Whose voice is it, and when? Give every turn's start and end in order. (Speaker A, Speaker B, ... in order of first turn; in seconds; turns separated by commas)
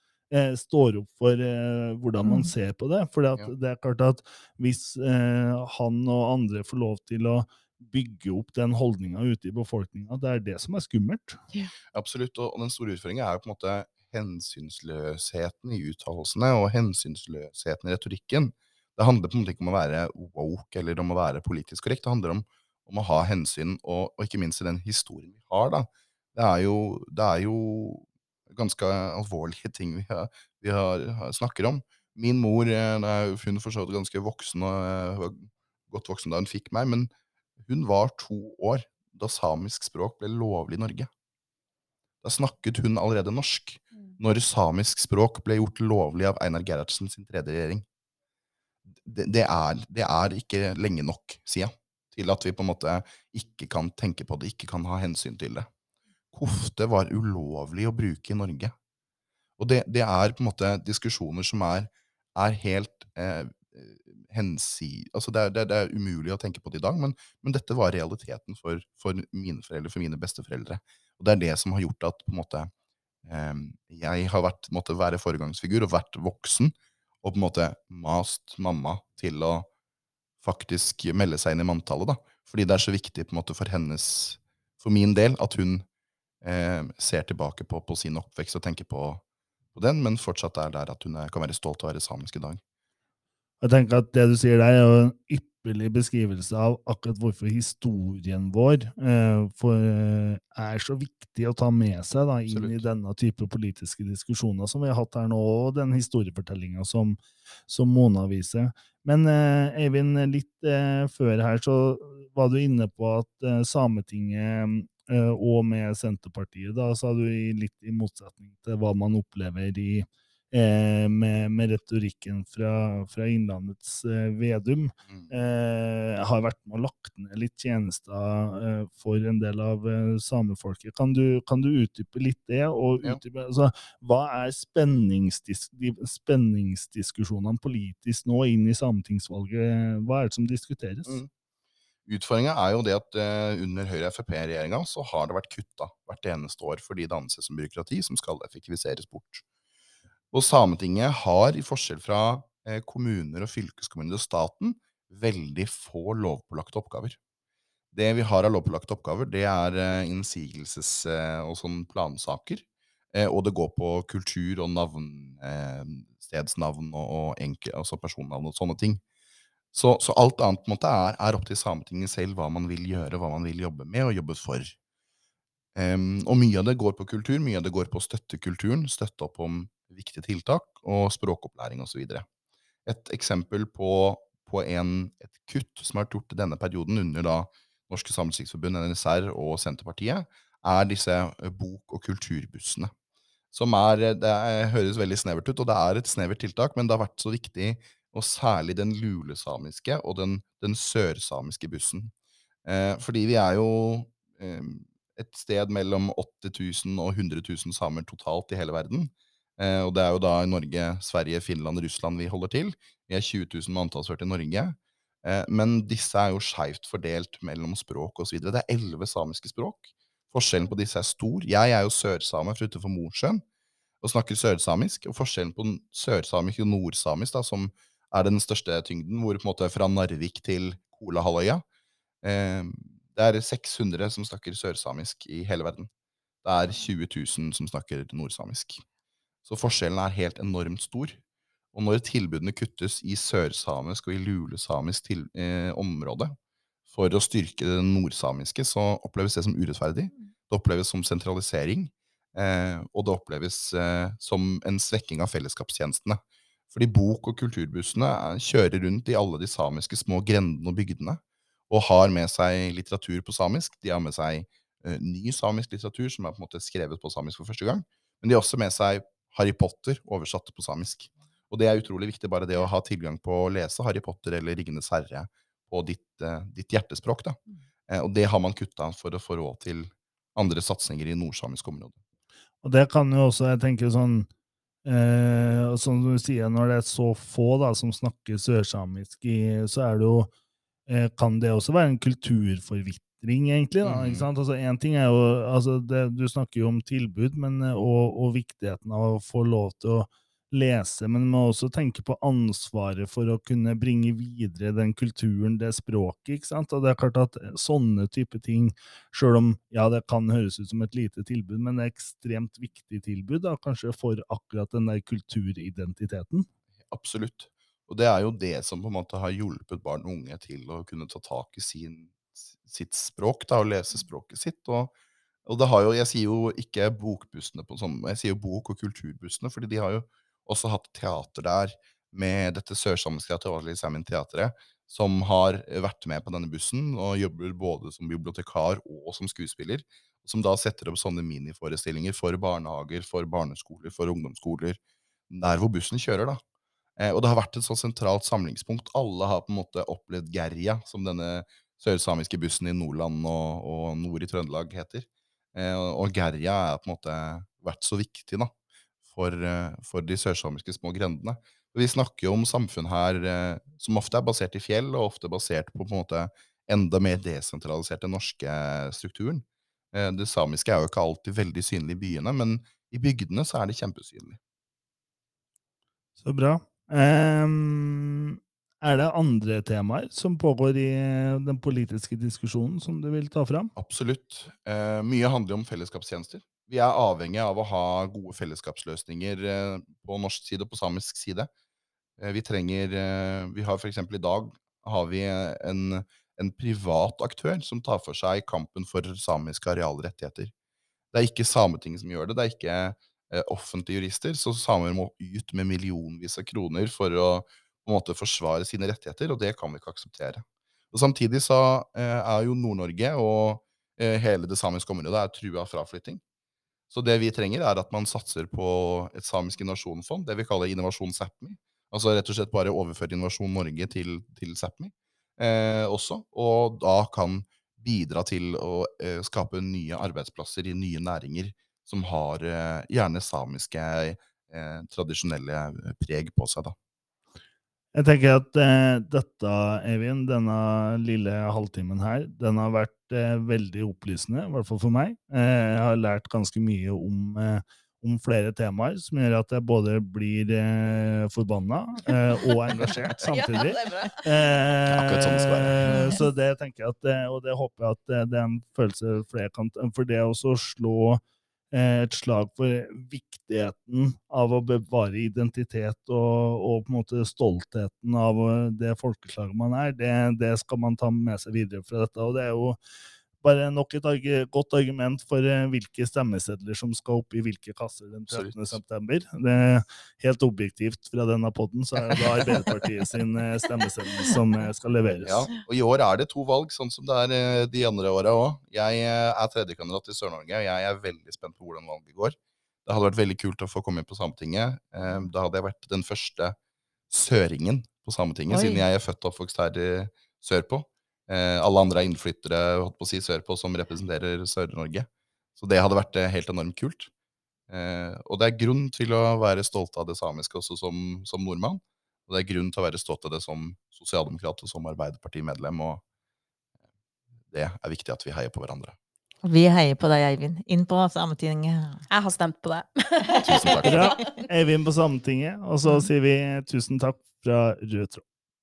Speaker A: 0.3-11.4, Speaker B: 2.2-2.5, Speaker C: 11.9-37.1, Speaker C: 37.6-41.1, Speaker C: 42.2-47.8, Speaker C: 48.9-55.7, Speaker C: 56.3-58.7, Speaker C: 59.6-72.7, Speaker C: 73.2-79.7, Speaker C: 80.4-85.8, Speaker C: 86.4-89.2, Speaker C: 89.7-92.6, Speaker A: 93.6-141.2, Speaker C: 102.5-102.8, Speaker C: 125.1-125.3, Speaker C: 142.1-149.4, Speaker C: 150.3-157.2, Speaker C: 157.9-169.0, Speaker C: 169.7-174.8, Speaker C: 175.7-182.2, Speaker C: 182.8-192.9, Speaker C: 193.5-202.1, Speaker C: 202.6-223.4, Speaker C: 224.0-231.6, Speaker C: 232.2-235.9, Speaker C: 236.4-238.8, Speaker C: 239.4-241.2, Speaker C: 241.7-246.3, Speaker C: 246.9-256.2, Speaker C: 256.7-277.4, Speaker C: 277.9-282.0, Speaker A: 282.6-284.3, Speaker A: 284.8-290.3, Speaker A: 290.9-316.4, Speaker C: 293.8-294.3, Speaker C: 316.9-324.9, Speaker C: 325.4-344.8, Speaker C: 345.3-346.4, Speaker C: 347.0-358.5, Speaker C: 359.1-374.4, Speaker A: 376.2-383.7, Speaker C: 383.7-391.5, Speaker C: 392.2-400.5, Speaker C: 401.1-416.2, Speaker C: 416.9-436.7, Speaker A: 437.9-461.2, Speaker D: 453.2-454.6, Speaker C: 454.9-455.8, Speaker A: 461.7-472.8, Speaker A: 473.4-485.5, Speaker C: 478.3-478.8, Speaker C: 485.2-496.6, Speaker C: 497.1-507.1, Speaker B: 498.5-498.8, Speaker C: 507.7-516.0, Speaker C: 517.5-519.0, Speaker B: 519.4-522.0, Speaker D: 522.1-524.3, Speaker C: 523.4-524.1, Speaker A: 523.8-528.2